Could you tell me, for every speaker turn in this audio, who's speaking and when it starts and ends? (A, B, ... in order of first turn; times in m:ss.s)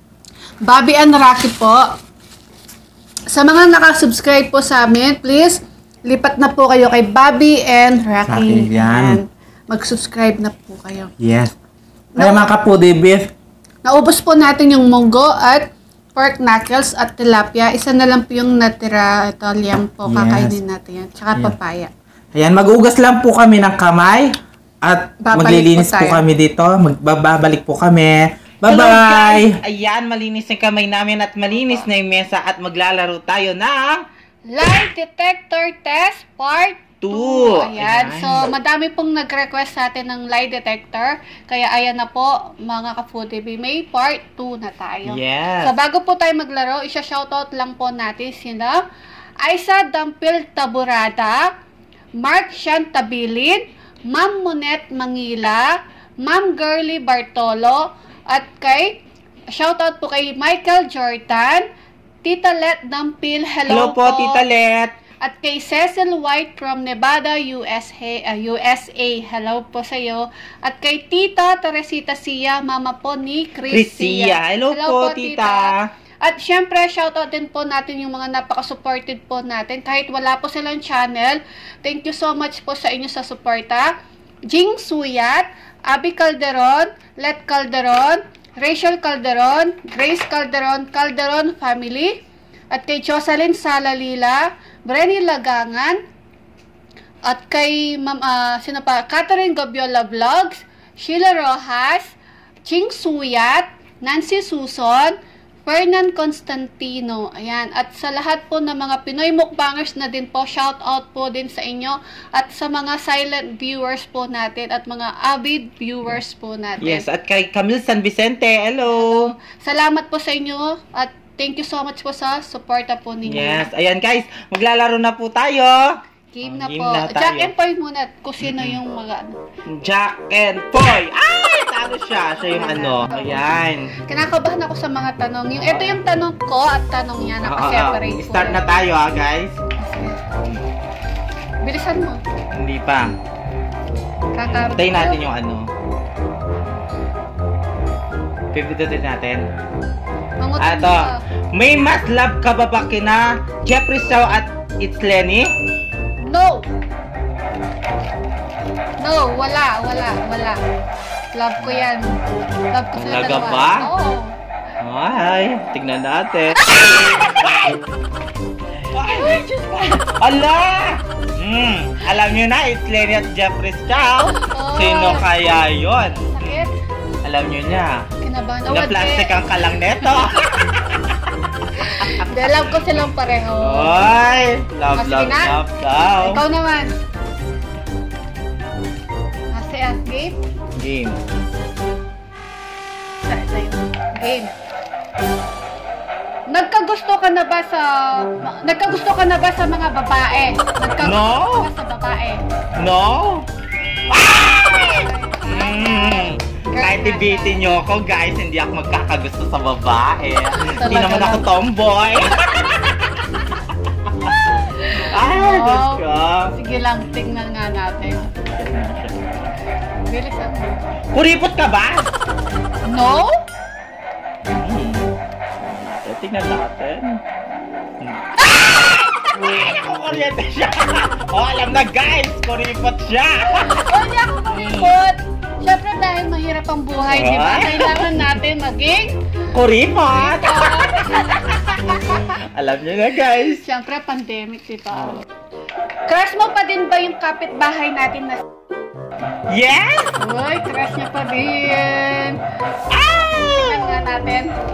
0:00.6-0:01.9 A
0:03.3-0:11.1 A
0:08.3-0:09.2 B
0:11.2-0:11.5 B
0:12.2-0:12.5 A
0:12.2-0:13.3 B
0:13.8-0:21.9 A
0:20.1-0:20.6 B
0:22.3-0:24.3 C
0:24.9-0:34.0 C
0:25.2-0:26.2 A
0:28.6-0:29.6 B
0:34.5-0:48.8 A
0:37.0-0:38.5 C
0:45.1-0:45.7 C
0:49.4-0:51.5 A
0:52.2-0:59.0 A
0:59.5-1:01.7 A
1:02.2-1:04.4 A
1:03.7-1:05.0 C
1:05.2-1:23.9 A
1:13.7-1:15.9 C
1:24.5-1:32.2 A
1:32.7-1:36.0 A
1:37.3-1:42.2 A
1:42.7-1:57.0 A
1:56.8-1:59.3 C
1:58.9-2:03.7 A
2:03.3-2:07.5 C
2:06.3-2:09.4 A
2:08.4-2:08.8 C
2:09.7-2:13.9 C
2:12.5-2:13.4 A
2:14.0-2:18.6 A
2:15.7-2:16.0 C
2:17.4-2:19.6 C
2:19.8-2:20.2 A
2:21.6-2:22.2 A
2:22.5-2:23.1 C
2:24.4-2:25.2 A
2:24.4-2:25.7 C
2:28.5-2:29.5 C
2:30.4-2:31.2 A
2:30.6-2:35.5 C
2:36.2-2:36.7 A
2:39.0-2:40.6 A
2:41.4-2:42.1 A
2:42.7-2:44.3 A
2:43.0-2:43.9 C
2:44.8-2:47.8 C
2:46.7-2:47.2 A
2:48.9-2:49.4 C
2:49.1-2:50.1 A
2:50.0-2:56.7 C
2:54.4-2:55.3 A
2:56.1-2:56.7 A
2:57.2-2:58.0 C
2:58.2-2:59.3 A
2:58.7-3:01.2 C
3:00.0-3:00.3 A
3:01.8-3:04.0 A
3:03.6-3:06.4 C
3:05.0-3:05.6 A
3:06.2-3:06.9 A
3:09.5-3:10.4 A
3:10.8-3:11.2 C
3:13.2-3:14.5 A
3:16.5-3:22.4 A
3:21.0-3:21.7 C
3:22.8-3:23.5 C
3:24.1-3:33.3 C
3:24.8-3:27.6 A
3:30.6-3:31.5 A
3:34.0-3:34.4 C
3:34.8-3:38.3 A
3:35.0-3:36.5 C
3:37.1-3:37.4 C
3:38.2-3:39.5 C
3:40.1-3:40.9 A
3:41.1-3:42.1 C
3:42.9-3:43.4 A
3:44.4-3:47.2 C
3:48.0-3:53.8 C
3:53.4-3:59.2 A
3:54.5-3:54.9 C
3:57.1-3:58.3 C
3:59.5-4:03.6 C
4:00.1-4:02.3 A
4:03.5-4:05.2 A
4:06.1-4:08.4 A
4:09.5-4:10.1 C
4:10.2-4:12.4 A
4:12.9-4:14.0 C
4:13.5-4:14.5 A